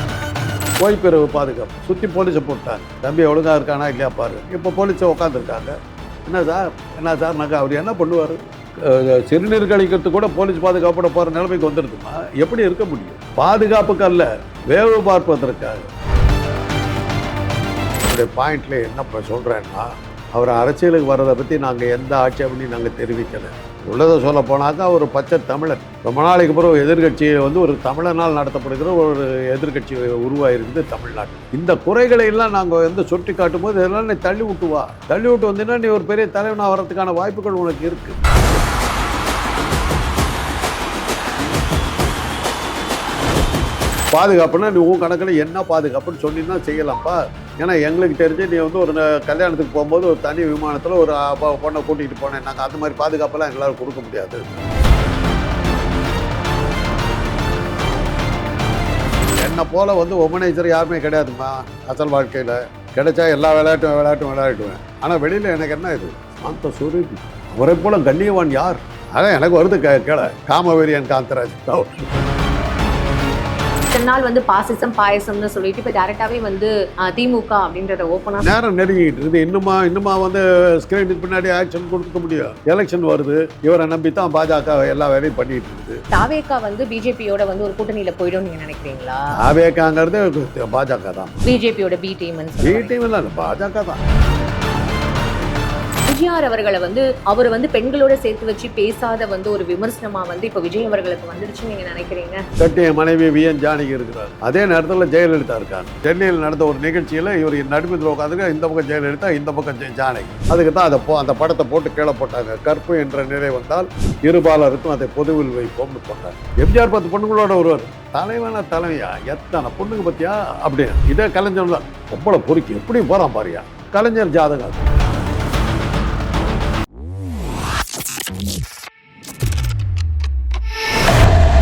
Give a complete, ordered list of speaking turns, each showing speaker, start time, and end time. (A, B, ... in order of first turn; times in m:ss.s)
0:00.8-0:15.9 A
0:18.1-0:38.2 A
0:44.1-0:54.4 A
0:59.4-1:12.2 A
1:13.9-1:18.5 B
1:18.4-1:26.0 A
1:26.1-1:29.3 B
1:29.4-1:31.4 A
1:31.4-1:32.9 B
1:32.6-1:34.0 A
1:36.0-1:42.4 B
1:42.6-2:04.9 A